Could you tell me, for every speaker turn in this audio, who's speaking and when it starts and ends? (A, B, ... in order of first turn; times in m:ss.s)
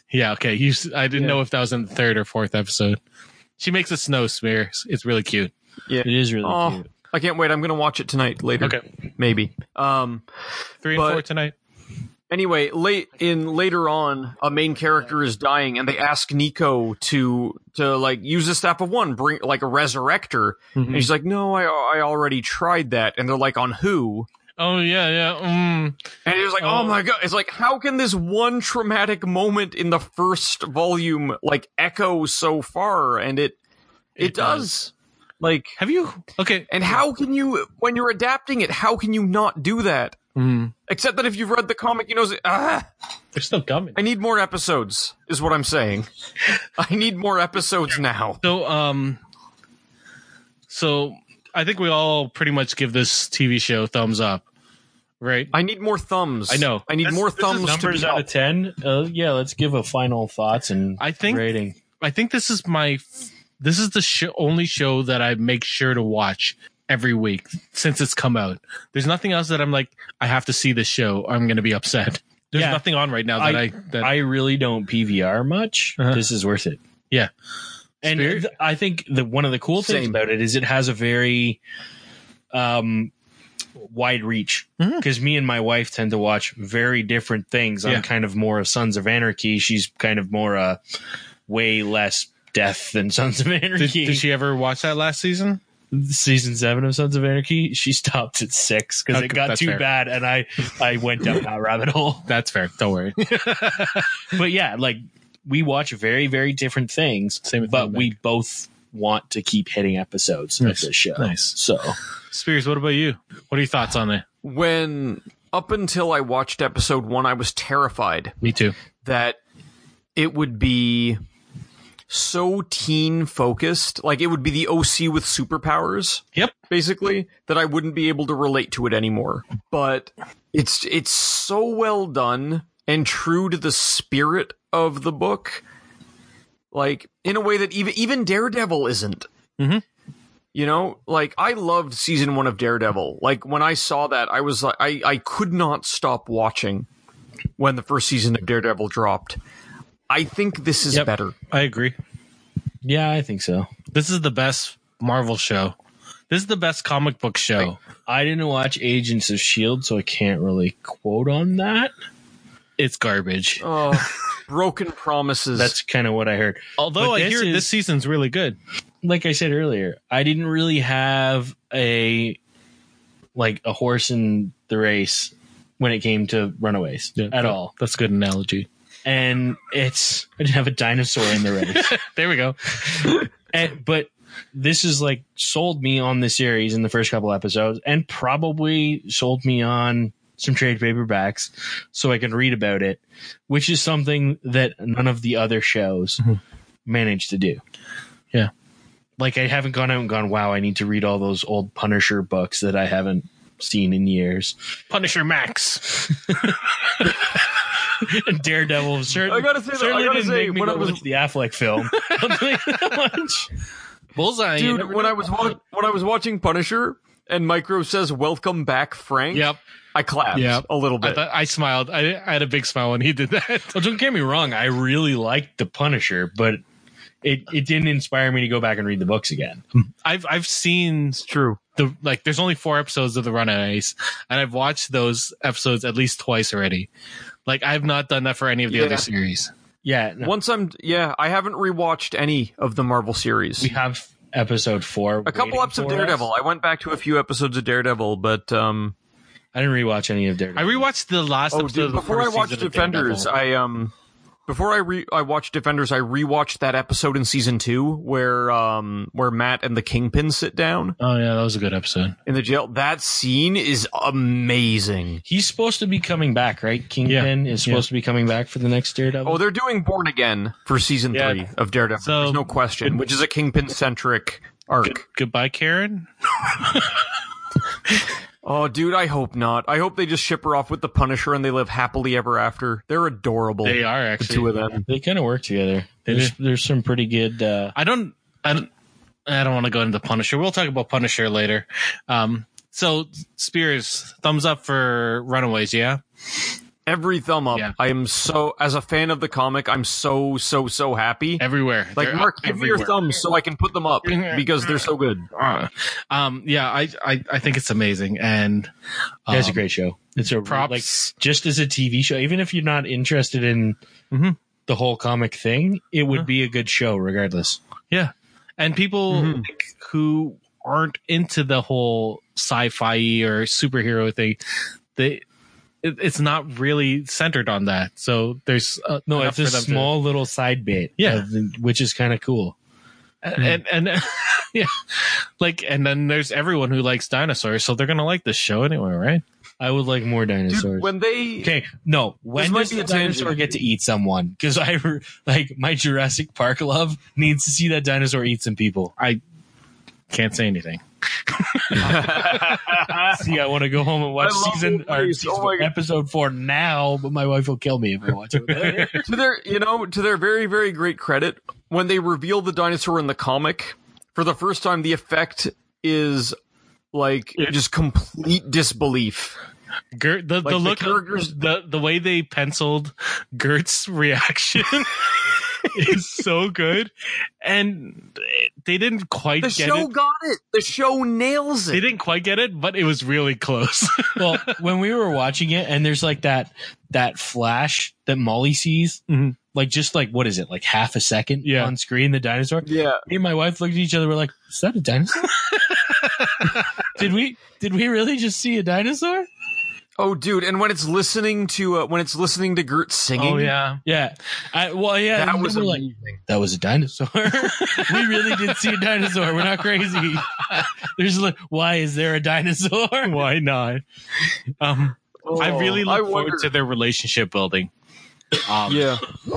0:00.1-0:03.0 A
0:01.1-0:01.4 B
0:03.6-0:05.5 A
0:05.9-0:10.2 C
0:06.0-0:06.9 B
0:10.8-0:11.5 A
0:10.9-0:11.2 C
0:12.3-0:24.3 C
0:20.8-0:21.1 A
0:24.6-0:26.1 A
0:26.2-0:33.5 C
0:26.6-0:27.0 A
0:34.2-0:34.7 A
0:34.2-0:35.8 C
0:35.8-0:37.0 A
0:36.7-0:40.2 C
0:40.3-0:40.7 A
0:40.9-0:42.8 C
0:43.3-0:44.0 A
0:44.0-0:46.1 C
0:46.8-0:48.4 C
0:48.4-0:49.2 A
0:50.7-0:54.4 A
0:55.2-0:55.5 A
0:55.5-0:58.2 C
0:56.5-0:58.2 A
0:57.6-1:01.8 B
1:01.0-1:14.1 A
1:12.5-1:12.8 B
1:13.4-1:16.8 B
1:18.0-1:21.6 B
1:18.1-1:18.5 A
1:19.8-1:20.2 C
1:22.5-1:23.1 B
1:23.8-1:30.8 B
1:24.8-1:25.0 A
1:31.5-1:34.2 B
1:33.8-1:35.6 A
1:35.9-1:42.3 B
1:39.1-1:39.8 A
1:42.3-1:44.1 A
1:44.3-1:52.0 B
1:47.4-1:48.1 A
1:50.6-1:51.5 A
1:52.3-1:54.2 A
1:54.4-1:58.3 C
1:58.4-1:58.7 A
1:59.0-1:59.4 C
2:00.2-2:01.2 C
2:02.1-2:15.6 C
2:16.7-2:19.3 C
2:19.6-2:19.8 A
2:20.5-2:26.9 C
2:27.6-2:29.4 C
2:30.1-2:31.3 C
2:31.5-2:31.9 A
2:32.8-2:33.7 B
2:33.9-2:35.7 A
2:36.3-2:37.8 A
2:38.0-2:41.9 B
2:42.8-2:44.0 A
2:43.6-2:45.7 C
2:45.5-2:47.7 B
2:46.8-2:48.6 A
2:49.0-2:52.4 B
2:53.4-2:57.7 B
2:57.2-2:58.7 A
2:59.0-3:01.9 B
3:01.7-3:03.2 A
3:03.0-3:16.2 B
3:16.8-3:17.6 B
3:19.2-3:24.6 B
3:24.9-3:27.4 A
3:28.0-3:33.5 B
3:29.2-3:31.0 C
3:32.0-3:32.9 A
3:34.2-3:35.3 A
3:34.6-3:41.2 C
3:39.3-3:39.6 A
3:40.3-3:43.8 A
3:43.7-3:46.6 B
3:47.2-3:49.6 B
3:49.7-3:56.9 A
3:51.2-3:51.6 C
3:57.4-3:59.5 A
3:58.7-3:59.1 C
3:59.8-4:00.3 B
4:00.2-4:03.7 C
4:03.6-4:06.2 B
4:05.2-4:08.9 C
4:09.5-4:10.8 B
4:10.6-4:13.3 A
4:11.5-4:13.9 C
4:14.5-4:21.0 C
4:21.0-4:22.1 A
4:22.2-4:25.2 C
4:25.2-4:29.4 B
4:27.0-4:27.8 A
4:29.2-4:35.0 C
4:31.1-4:31.4 A
4:32.0-4:33.0 A
4:34.8-4:37.1 A
4:38.4-4:44.8 C
4:43.6-4:44.5 A
4:44.9-4:47.7 B
4:46.0-4:46.3 A
4:47.7-4:48.7 A
4:49.2-4:56.0 A
4:56.9-5:01.4 C
5:01.4-5:03.1 A
5:02.0-5:05.3 C
5:04.0-5:08.7 A
5:09.2-5:09.6 A
5:09.3-5:13.8 B
5:10.4-5:11.1 A
5:14.1-5:14.4 A
5:14.6-5:17.6 B
5:17.9-5:24.4 A
5:19.1-5:19.5 C
5:25.0-5:25.2 A
5:25.8-5:29.9 A
5:29.1-5:32.5 B
5:31.0-5:31.2 A
5:33.2-5:39.2 A
5:39.6-5:40.9 B
5:40.5-5:41.5 C
5:41.4-5:48.9 B
5:42.4-5:43.5 C
5:50.1-5:53.0 A
5:51.8-5:53.2 C
5:53.1-5:59.1 B
5:54.2-5:55.7 C
5:58.4-5:59.1 A
5:59.0-6:06.3 C
6:06.9-6:09.4 C
6:09.9-6:15.1 A
6:10.4-6:11.3 C
6:15.7-6:19.9 A
6:19.4-6:21.8 C
6:21.7-6:24.5 A
6:24.2-6:29.0 B
6:29.1-6:29.4 A
6:29.5-6:35.3 B
6:31.4-6:31.7 A
6:32.6-6:33.0 C
6:35.4-6:36.7 A
6:36.9-6:39.3 B
6:40.0-6:43.5 C
6:43.2-6:43.8 A
6:43.8-6:50.4 B
6:45.1-6:46.2 C
6:47.3-6:48.8 A
6:50.9-6:53.2 B
6:53.0-6:53.8 A
6:54.6-6:57.7 A
6:55.2-6:56.5 C
6:58.4-6:59.0 A
6:58.7-6:59.0 C